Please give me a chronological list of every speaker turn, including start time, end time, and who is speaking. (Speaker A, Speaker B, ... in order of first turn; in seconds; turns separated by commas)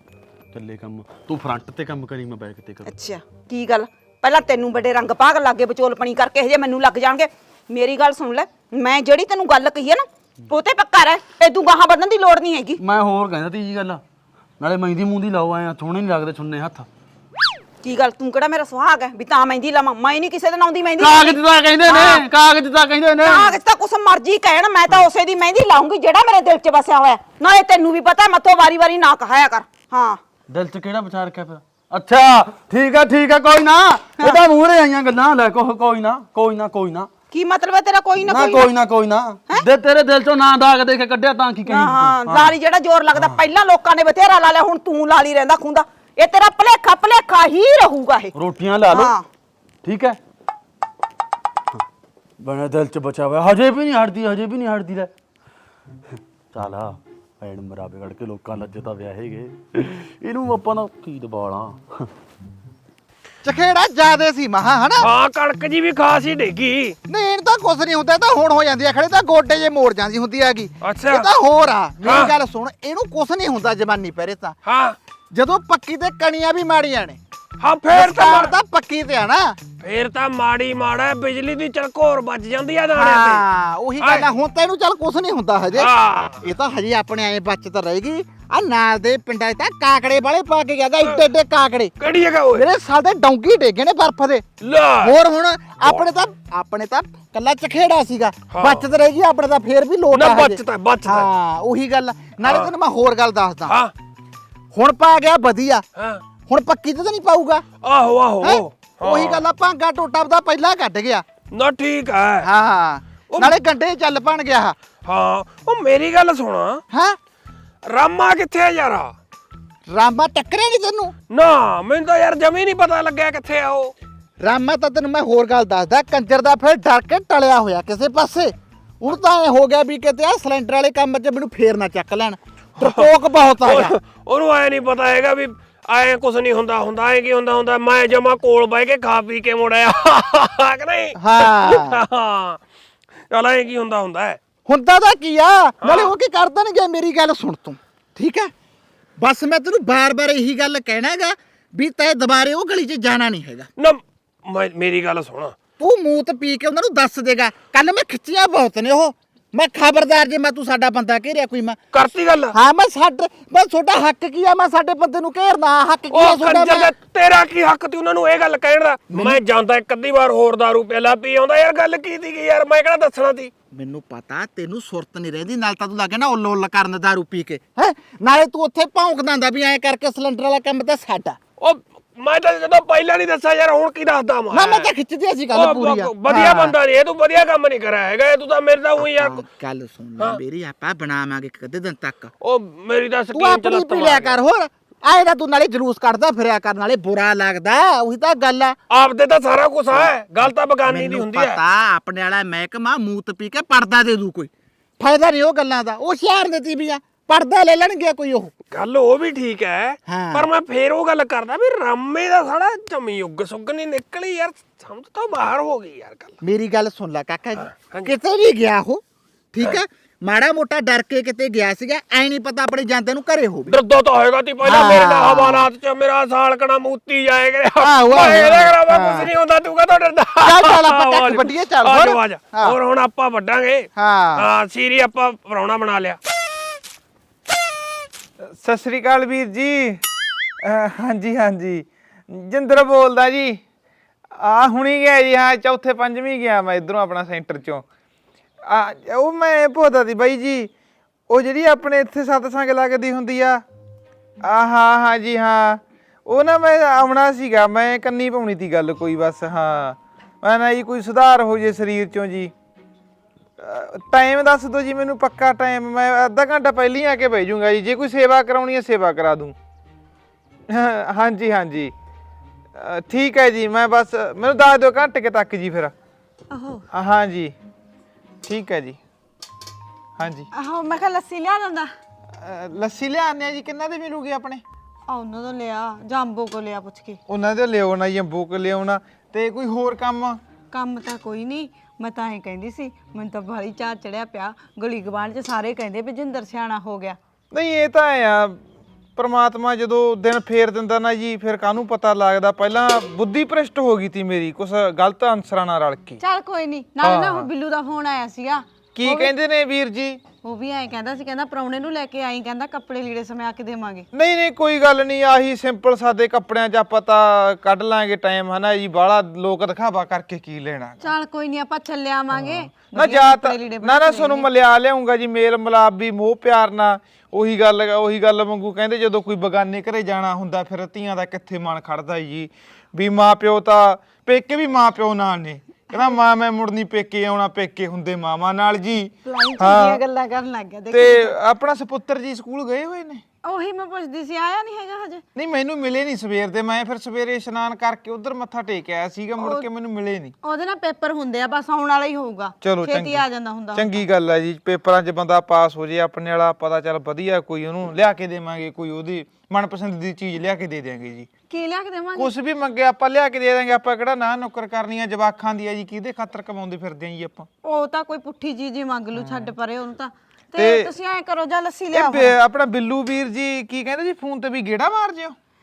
Speaker A: 0.5-2.9, Speaker B: 2.9-12.8, Speaker A: 12.8-14.0, Speaker A: 14.6-16.9, Speaker B: 17.8-22.2, Speaker A: 21.0-23.6, Speaker B: 23.2-30.2, Speaker A: 30.5-37.1, Speaker B: 37.3-38.7, Speaker A: 38.2-42.5, Speaker B: 41.6-48.3, Speaker A: 43.1-43.4, Speaker A: 48.3-49.1, Speaker B: 48.9-49.2, Speaker A: 49.8-50.2, Speaker A: 52.4-55.1, Speaker A: 56.5-62.1, Speaker C: 63.4-65.1, Speaker D: 65.0-67.0, Speaker C: 67.1-74.5, Speaker D: 70.8-71.3, Speaker D: 72.0-72.3, Speaker D: 74.7-75.0, Speaker C: 75.3-77.2, Speaker D: 77.6-78.5, Speaker C: 77.9-79.6, Speaker D: 79.8-83.4, Speaker C: 82.9-91.9, Speaker D: 84.0-84.3, Speaker D: 85.7-86.4, Speaker D: 92.0-92.7, Speaker C: 92.5-103.8, Speaker D: 94.6-95.1, Speaker D: 98.5-98.8, Speaker D: 100.1-101.3, Speaker D: 102.4-102.7, Speaker D: 103.7-103.9, Speaker C: 104.7-105.8, Speaker D: 106.0-106.2, Speaker C: 106.5-107.6, Speaker D: 107.8-109.4, Speaker C: 108.4-111.2, Speaker D: 111.5-112.5, Speaker C: 112.4-114.8, Speaker D: 113.3-113.6, Speaker D: 115.0-116.8, Speaker C: 116.9-117.2, Speaker D: 117.8-119.1, Speaker C: 119.9-121.1, Speaker D: 121.3-123.9, Speaker C: 124.4-133.9, Speaker D: 132.8-133.1, Speaker D: 133.6-142.6, Speaker C: 141.1-142.0, Speaker D: 143.3-144.4, Speaker C: 144.7-148.5, Speaker D: 145.8-146.1, Speaker C: 149.2-153.7, Speaker D: 153.8-155.5, Speaker C: 155.8-161.8, Speaker D: 161.9-162.6, Speaker C: 162.5-166.9, Speaker D: 166.1-173.5, Speaker C: 169.1-169.4, Speaker C: 173.7-181.4, Speaker D: 181.6-184.9, Speaker C: 184.5-186.7, Speaker D: 185.5-189.4, Speaker C: 189.0-192.3, Speaker D: 192.4-194.4, Speaker C: 193.3-198.8, Speaker D: 198.9-201.6, Speaker C: 200.8-208.5, Speaker D: 208.7-216.4, Speaker C: 210.1-210.5, Speaker C: 216.4-219.0, Speaker D: 217.7-218.1, Speaker C: 219.5-223.8, Speaker D: 223.7-236.2, Speaker C: 224.6-225.7, Speaker C: 227.8-229.3, Speaker C: 230.4-232.8, Speaker C: 233.9-234.4, Speaker E: 238.4-240.0, Speaker E: 240.6-243.6, Speaker E: 244.3-247.8, Speaker E: 248.7-250.7, Speaker E: 251.3-253.6, Speaker E: 254.4-262.5, Speaker E: 263.6-269.5, Speaker E: 270.7-271.9, Speaker E: 272.8-275.9, Speaker F: 276.5-276.8, Speaker E: 276.9-277.5, Speaker E: 278.4-279.0, Speaker E: 280.2-280.5, Speaker F: 280.5-281.9, Speaker E: 282.4-284.6, Speaker F: 285.1-287.2, Speaker E: 287.3-290.4, Speaker F: 290.7-297.2, Speaker E: 297.5-298.6, Speaker E: 299.1-306.2, Speaker F: 306.2-309.3, Speaker E: 307.0-307.5, Speaker E: 308.9-310.2, Speaker F: 310.4-314.1, Speaker E: 314.1-321.1, Speaker F: 321.0-324.5, Speaker E: 322.3-340.0, Speaker F: 339.2-341.3, Speaker E: 340.9-343.2, Speaker F: 343.4-345.2, Speaker E: 345.3-350.3, Speaker F: 349.4-349.6, Speaker F: 350.4-354.0, Speaker E: 352.6-361.3, Speaker F: 361.5-362.3, Speaker E: 362.1-367.5, Speaker F: 367.6-372.3, Speaker E: 369.2-369.5, Speaker E: 370.6-370.9, Speaker E: 371.9-375.4